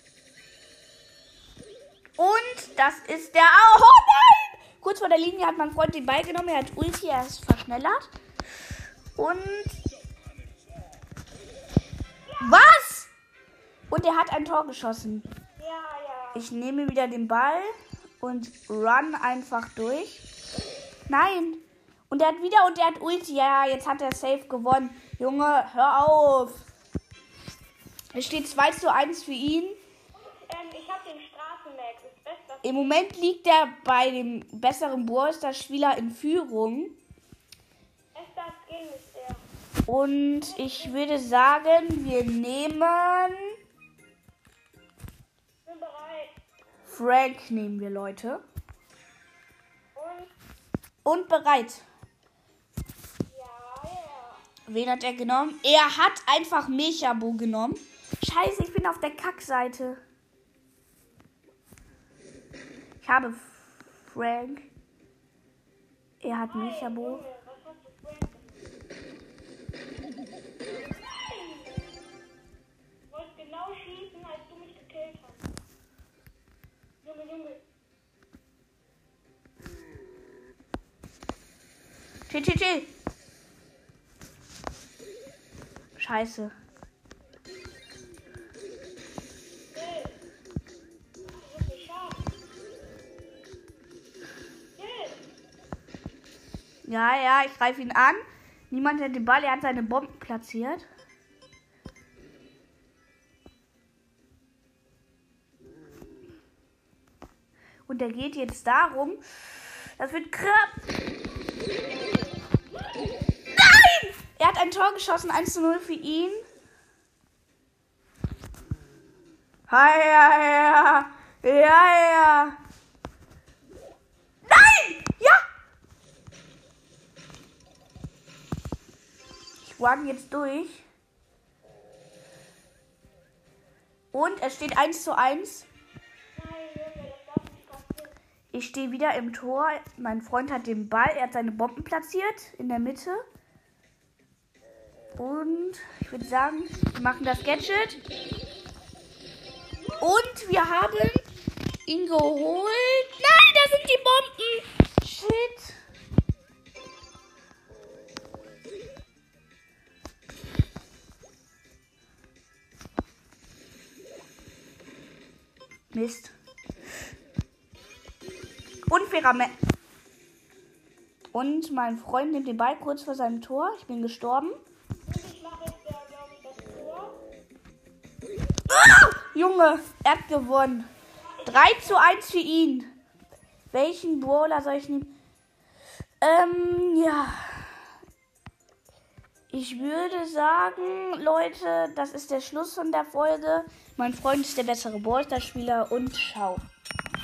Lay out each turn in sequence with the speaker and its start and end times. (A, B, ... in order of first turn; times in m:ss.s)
0:02.2-0:08.1 A
0:09.2-0:09.8 A
0:12.2-0:12.6 B
0:12.4-0:13.1 A
0:13.9-0:15.3 A
0:15.6-0:16.5 B
0:16.3-0:20.2 A
0:21.1-0:26.6 A
0:28.1-0:29.8 A
0:30.1-0:33.0 B
0:32.6-0:36.9 A
0:38.1-0:39.4 B
0:39.9-0:43.5 A
0:40.4-0:41.0 B
0:45.6-0:46.3 B
0:46.8-0:48.4 A
0:49.9-0:50.3 B
0:51.0-0:51.8 A
0:53.3-0:54.4 B
0:54.6-1:00.0 A
1:03.0-1:04.7 A
1:06.2-1:07.2 A
1:06.4-1:08.7 B
1:10.7-1:11.9 B
1:13.1-1:15.4 B
1:17.0-1:17.6 B
1:22.3-1:22.9 A
1:26.0-1:26.5 A
1:29.7-1:30.2 B
1:31.2-1:32.2 B
1:34.8-1:35.3 B
1:36.8-1:40.8 A
1:47.9-1:49.2 A
1:50.0-1:50.7 A
1:53.5-1:56.4 A
1:59.7-2:02.5 A
2:04.4-2:05.4 A
2:09.6-2:10.8 A
2:14.1-2:15.7 A
2:16.3-2:18.1 B
2:18.5-2:23.2 A
2:25.2-2:28.0 A
2:29.7-2:30.2 B
2:30.0-2:31.2 A
2:31.8-2:35.8 A
2:45.9-2:46.3 A
2:48.9-2:49.5 A
2:51.3-2:54.5 A
2:55.0-2:57.2 B
2:58.7-3:00.9 A
3:01.1-3:02.1 B
3:01.4-3:02.9 A
3:03.7-3:05.1 A
3:06.2-3:07.7 A
3:09.5-3:16.6 A
3:09.7-3:11.0 B